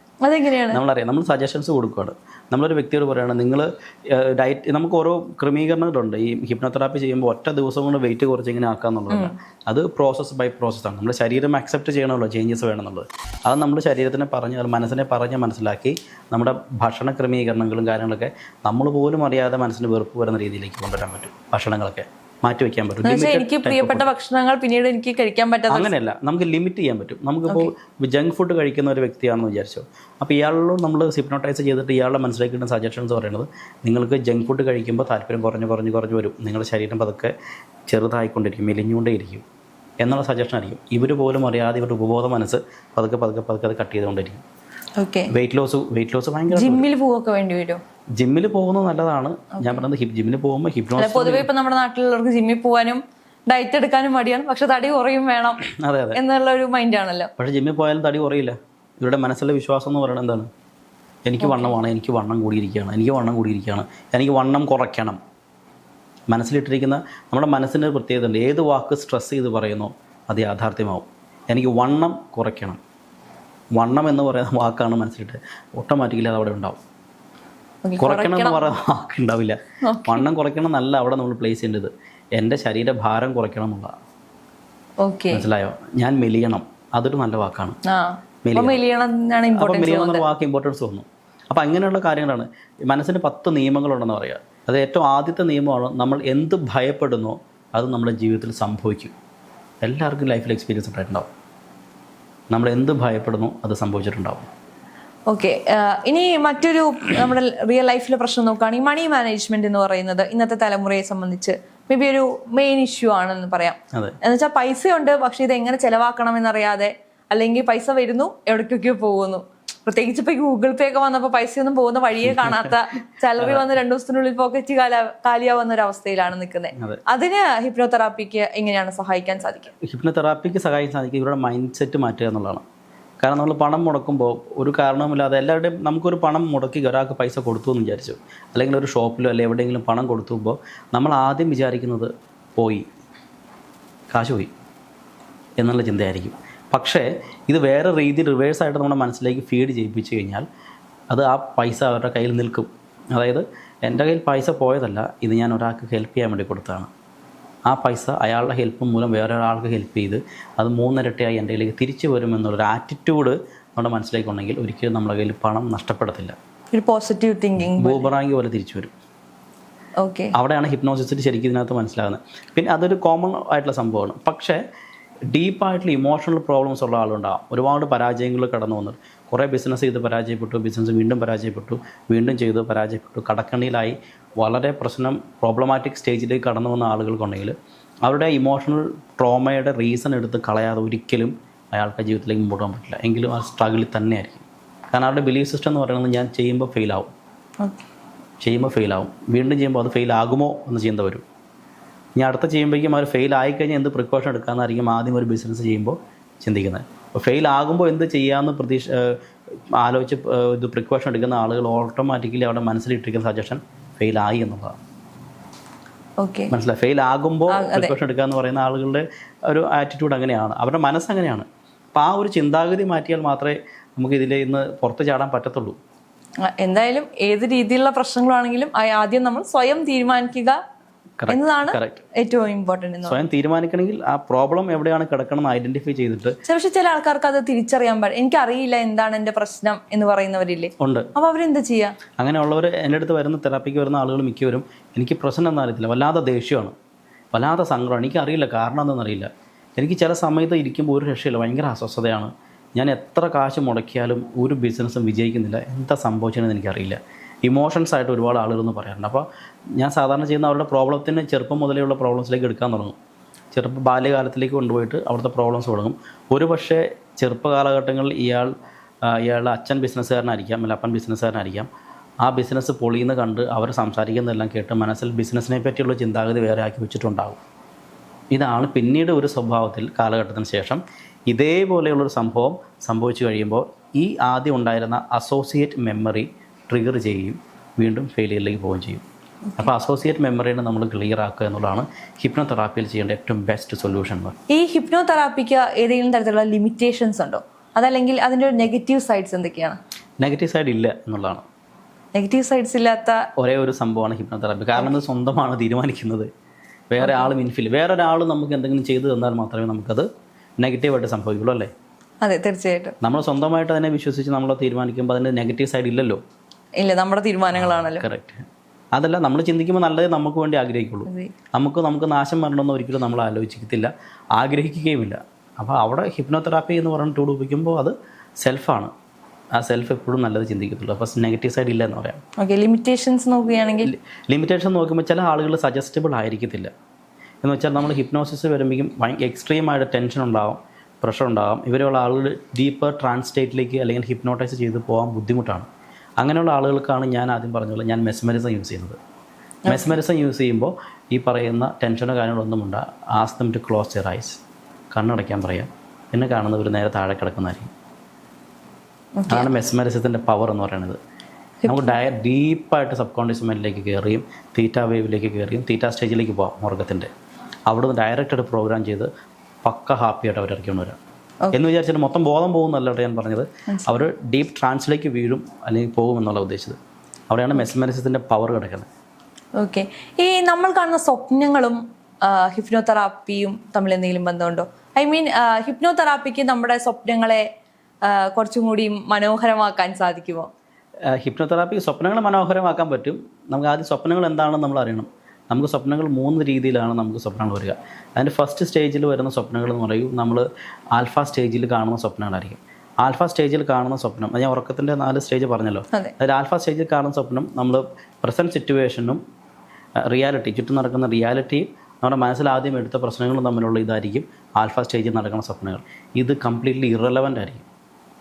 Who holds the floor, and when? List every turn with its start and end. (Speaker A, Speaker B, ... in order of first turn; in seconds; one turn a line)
Speaker A: 0.2-0.8
Speaker B: 0.7-24.1
Speaker A: 23.1-25.9
Speaker B: 25.7-37.3
Speaker B: 37.9-39.5
Speaker B: 40.0-44.4
Speaker A: 45.0-45.3
Speaker B: 45.3-46.9
Speaker A: 46.5-47.8
Speaker B: 48.2-51.5
Speaker A: 49.6-49.9
Speaker A: 51.0-55.6
Speaker B: 55.7-56.2
Speaker A: 56.1-57.3
Speaker B: 57.4-60.5
Speaker B: 61.3-65.2
Speaker A: 61.4-61.7
Speaker B: 66.3-72.8
Speaker B: 73.8-76.8
Speaker A: 77.8-78.7
Speaker B: 78.0-83.9
Speaker A: 79.9-80.3
Speaker A: 85.0-85.5
Speaker B: 85.3-87.8
Speaker A: 87.9-90.3
Speaker B: 88.5-88.8
Speaker B: 89.5-99.1
Speaker B: 99.8-101.3
Speaker B: 102.5-104.5
Speaker A: 105.3-129.7
Speaker B: 122.2-122.8
Speaker B: 123.4-123.7
Speaker B: 126.8-127.0
Speaker B: 129.8-132.6
Speaker B: 133.2-142.9
Speaker B: 144.1-144.5
Speaker B: 145.6-150.5
Speaker B: 151.1-156.9
Speaker B: 157.7-166.3
Speaker A: 166.7-168.1
Speaker B: 167.8-168.9
Speaker A: 170.0-170.3
Speaker B: 170.3-174.6
Speaker B: 175.3-187.6
Speaker B: 188.1-197.1
Speaker B: 198.4-201.2
Speaker B: 202.2-209.2
Speaker B: 209.7-214.8
Speaker A: 216.2-216.5
Speaker B: 216.5-225.8
Speaker A: 217.5-217.9
Speaker A: 226.4-230.6
Speaker B: 231.2-232.0
Speaker A: 231.3-233.2
Speaker B: 233.1-236.4
Speaker A: 236.5-242.0
Speaker B: 240.8-241.1
Speaker B: 242.2-246.7
Speaker B: 247.3-259.2
Speaker B: 259.8-263.0
Speaker B: 263.5-268.5
Speaker B: 269.1-271.7
Speaker B: 272.2-277.4
Speaker B: 278.3-289.0
Speaker B: 289.6-294.4
Speaker A: 294.5-299.8
Speaker B: 300.2-301.4
Speaker A: 302.1-303.2
Speaker B: 303.4-306.3
Speaker B: 306.9-310.1
Speaker A: 307.0-307.3
Speaker B: 310.6-311.7
Speaker A: 312.2-313.0
Speaker B: 313.0-316.2
Speaker A: 316.8-318.1
Speaker B: 317.6-328.9
Speaker A: 321.1-321.3
Speaker B: 329.6-332.2
Speaker A: 332.4-333.9
Speaker B: 333.8-336.7
Speaker B: 337.4-345.7
Speaker B: 346.2-349.0
Speaker A: 349.7-350.0
Speaker B: 349.7-354.4
Speaker B: 354.9-357.7
Speaker A: 359.2-359.5
Speaker B: 359.3-361.0
Speaker A: 361.6-361.9
Speaker B: 361.7-367.1
Speaker B: 367.7-369.1
Speaker B: 369.6-371.0
Speaker B: 371.5-376.8
Speaker A: 373.7-374.0
Speaker B: 377.3-378.9
Speaker A: 379.6-387.4
Speaker A: 388.1-390.5
Speaker B: 391.1-409.2
Speaker B: 410.1-417.7